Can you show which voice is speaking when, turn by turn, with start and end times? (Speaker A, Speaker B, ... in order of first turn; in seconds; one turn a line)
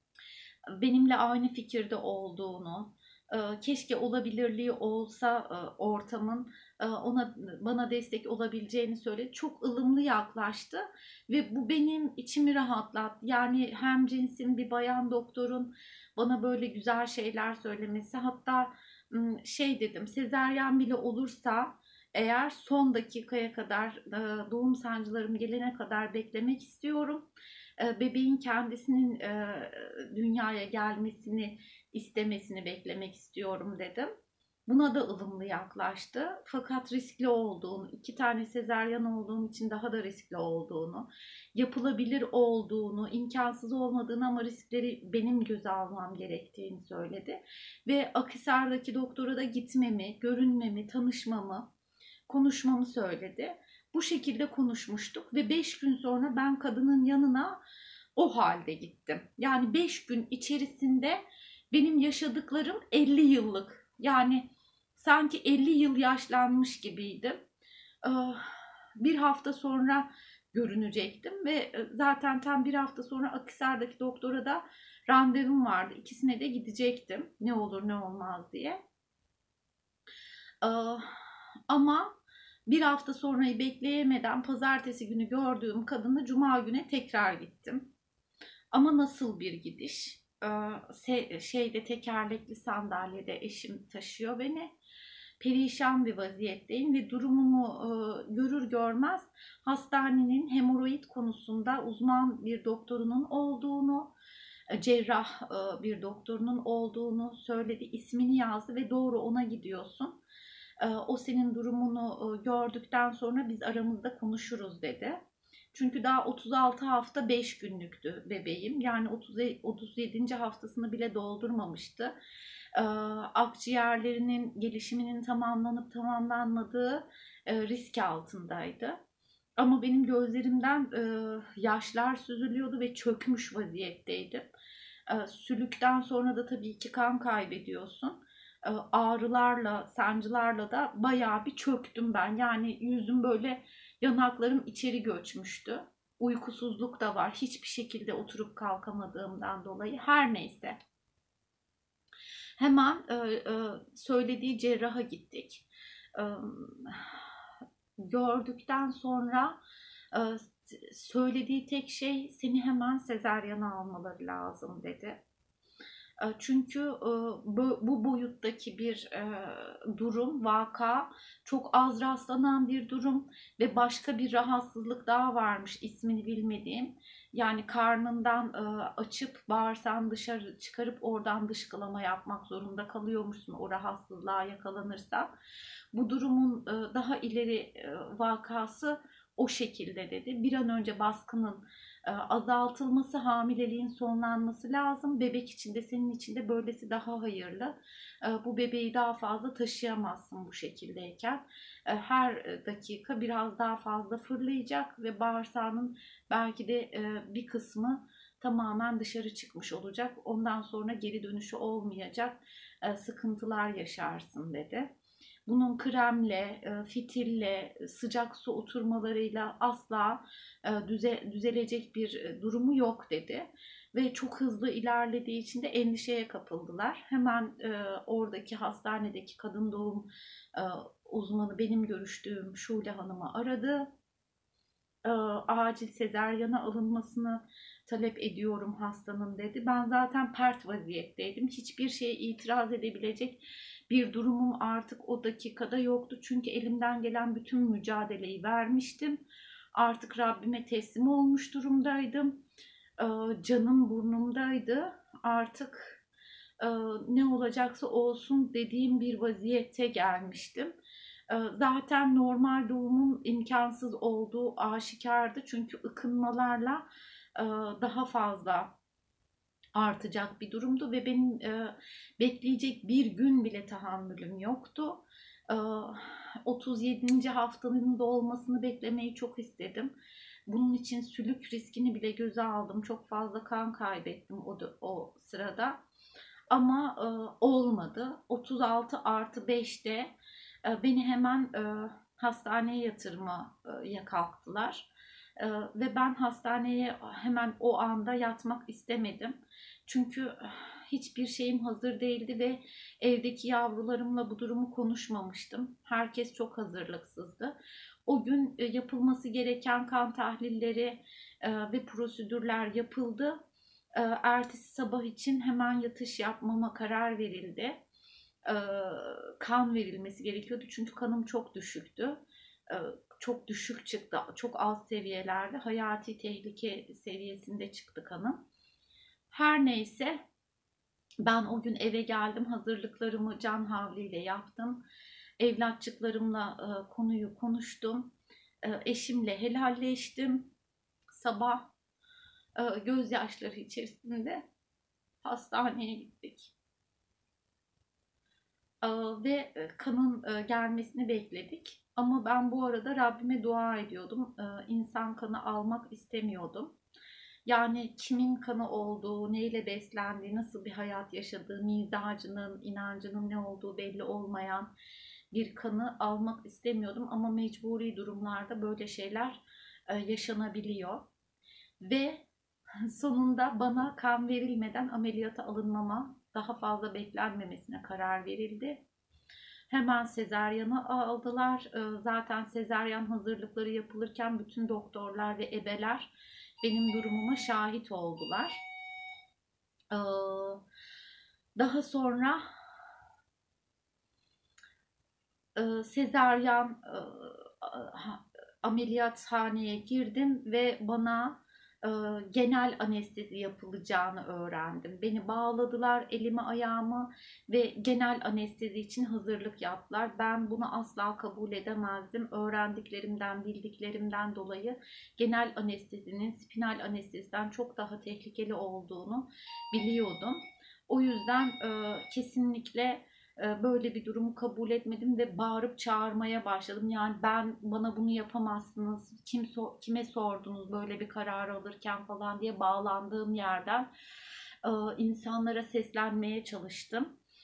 Speaker A: 0.8-27.3
Speaker A: 27.8-34.1
Speaker A: 34.7-51.7
Speaker A: 52.3-57.6
Speaker A: 58.2-67.4
Speaker A: 68.0-78.8
Speaker A: 80.6-82.1
Speaker A: 82.7-87.9
Speaker A: 88.7-94.7
Speaker A: 95.4-104.1
Speaker A: 104.7-110.2
Speaker A: 110.8-115.2
Speaker A: 115.7-122.1
Speaker A: 122.8-129.0
Speaker A: 129.6-134.5
Speaker A: 135.1-150.8
Speaker A: 152.6-157.2
Speaker A: 158.1-159.6
Speaker A: 160.1-165.2
Speaker A: 166.2-185.3
Speaker A: 185.9-214.9
Speaker A: 215.5-233.9
Speaker A: 235.0-249.2
Speaker A: 249.8-252.4
Speaker A: 253.0-256.0
Speaker A: 256.6-260.8
Speaker A: 261.3-266.9
Speaker A: 267.4-268.7
Speaker A: 269.8-279.9
Speaker A: 280.5-285.8
Speaker A: 286.5-290.1
Speaker A: 290.6-307.6
Speaker A: 308.1-313.4
Speaker A: 313.9-317.8
Speaker A: 318.5-328.4
Speaker A: 329.3-330.2
Speaker A: 331.2-334.8
Speaker A: 335.4-340.5
Speaker A: 341.1-341.7
Speaker A: 342.6-344.4
Speaker A: 345.2-346.5
Speaker A: 348.8-356.8
Speaker A: 357.5-364.7
Speaker A: 365.3-371.1
Speaker A: 371.8-372.2
Speaker A: 372.9-378.8
Speaker A: 379.7-388.6
Speaker A: 389.9-390.6
Speaker A: 391.6-392.4
Speaker A: 395.6-433.9
Speaker A: 434.6-437.1